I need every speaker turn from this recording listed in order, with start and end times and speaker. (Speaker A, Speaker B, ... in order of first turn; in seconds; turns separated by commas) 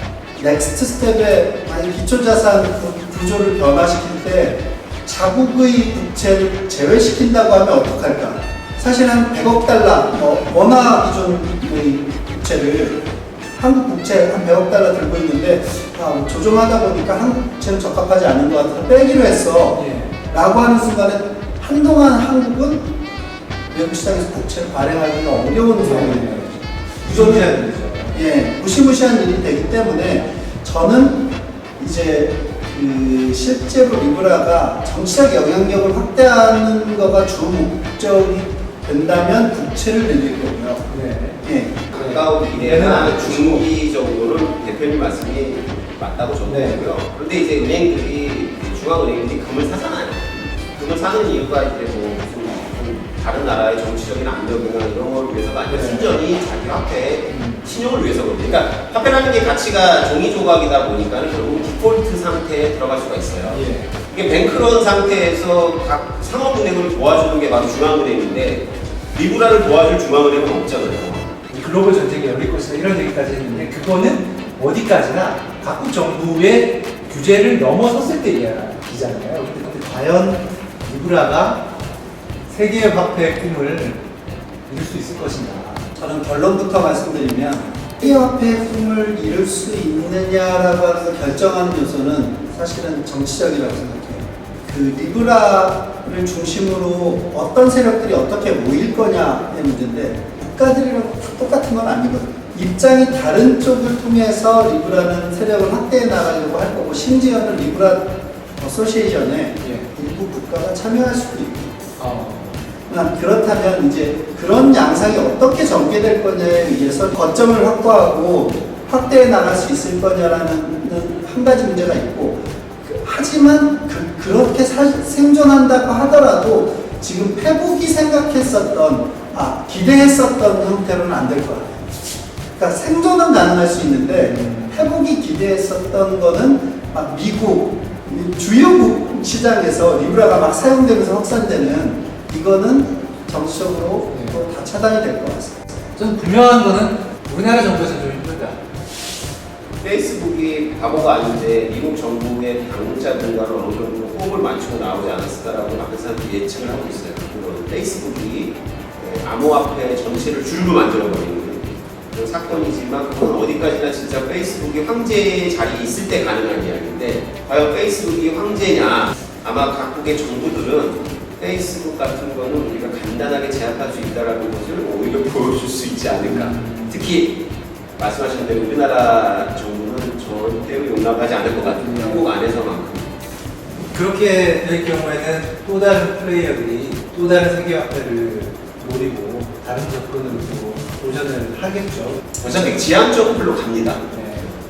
Speaker A: 0.3-13.0, Speaker A: 13.6-22.9, Speaker B: 19.7-20.1, Speaker A: 23.7-40.9, Speaker B: 25.8-28.2, Speaker B: 40.9-41.4, Speaker A: 41.4-41.9, Speaker C: 41.9-71.3, Speaker B: 41.9-43.7, Speaker B: 46.4-46.8, Speaker B: 55.7-56.1, Speaker B: 57.3-57.7, Speaker B: 63.5-63.9, Speaker B: 71.5-81.7, Speaker B: 82.5-84.0, Speaker B: 84.7-85.9, Speaker A: 86.0-111.8, Speaker B: 109.6-109.9, Speaker B: 112.0-112.6, Speaker A: 112.9-131.8, Speaker A: 132.6-145.8, Speaker B: 134.2-134.9, Speaker B: 144.1-144.4, Speaker B: 145.9-148.6, Speaker C: 149.8-177.4, Speaker B: 176.1-177.1, Speaker C: 178.0-183.1, Speaker B: 181.8-182.3, Speaker B: 183.9-192.8, Speaker C: 192.4-194.0, Speaker B: 194.1-194.5